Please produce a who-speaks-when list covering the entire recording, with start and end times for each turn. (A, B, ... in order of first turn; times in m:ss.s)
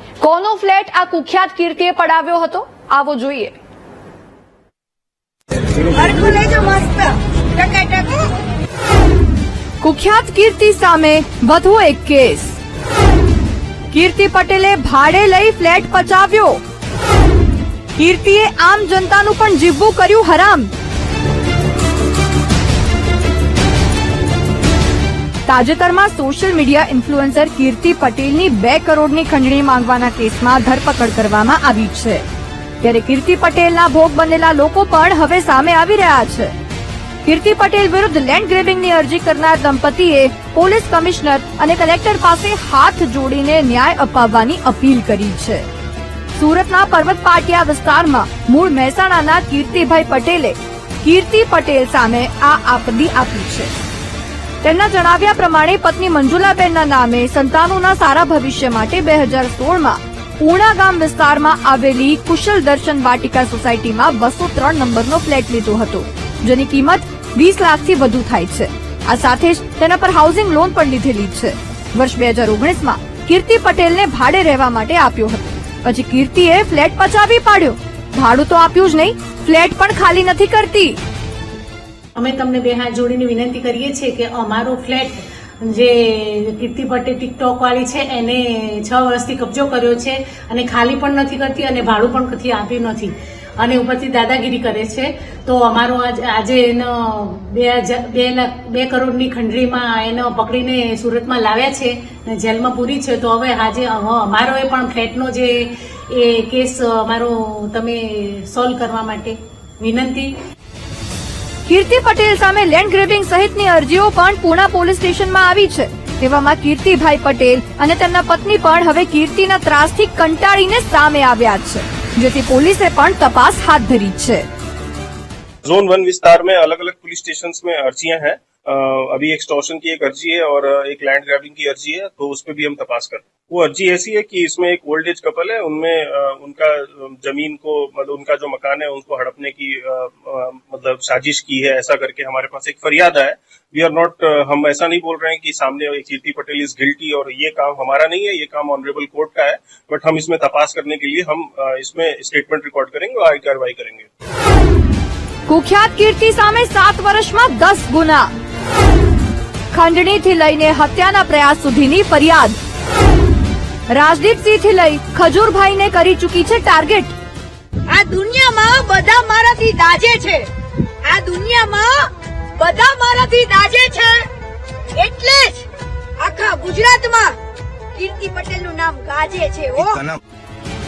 0:00.2-0:03.6 A
0:05.9-0:08.3 B
0:09.8-0:12.6 A
0:13.9-0:16.6 A
0:18.0-0:20.7 A
0:25.5-0:32.2 A
0:32.8-0:36.5 A
0:37.2-0:45.6 A
0:46.3-0:53.7 A
0:54.6-1:21.0 A
1:22.2-1:50.3 C
1:51.7-2:04.5 A
2:05.6-2:34.1 D
2:35.5-2:38.3 A
2:39.7-2:42.6 A
2:43.9-2:47.2 A
2:47.9-2:50.5 B
2:51.0-2:54.3 B
2:55.0-2:55.7 B
2:56.2-2:57.4 B
2:58.0-3:00.1 B